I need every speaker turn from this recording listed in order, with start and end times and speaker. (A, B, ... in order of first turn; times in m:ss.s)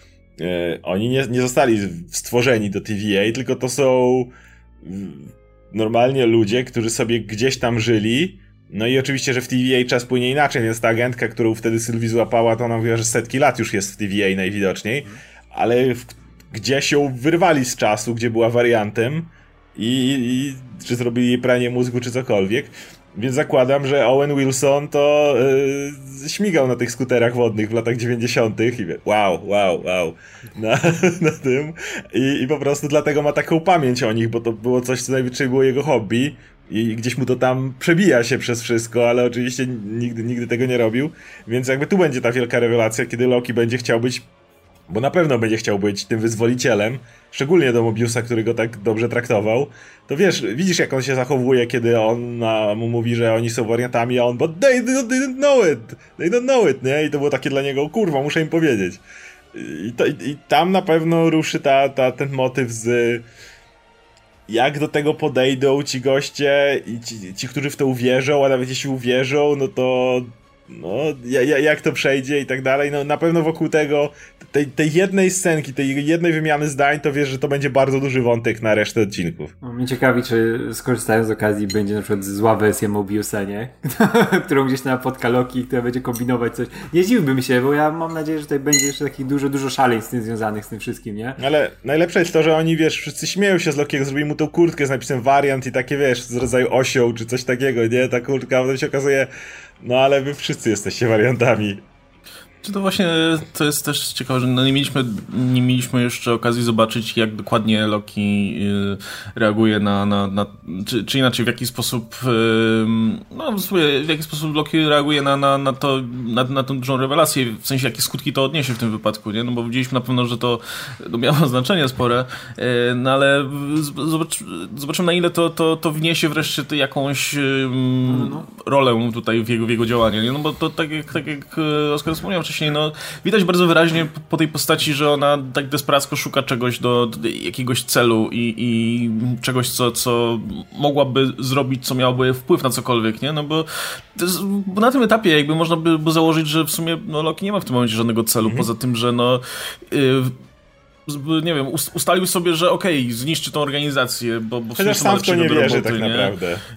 0:00.4-0:44.3 A
0:44.9-0:59.0 A
0:59.5-1:03.3 A
1:04.5-1:19.5 A
1:19.6-1:31.4 B
1:31.4-1:39.3 A
1:39.8-1:41.8 A
1:42.6-2:30.4 C
2:08.0-2:08.5 B
2:28.4-2:28.7 A
2:31.1-2:36.3 C
2:34.8-2:36.6 A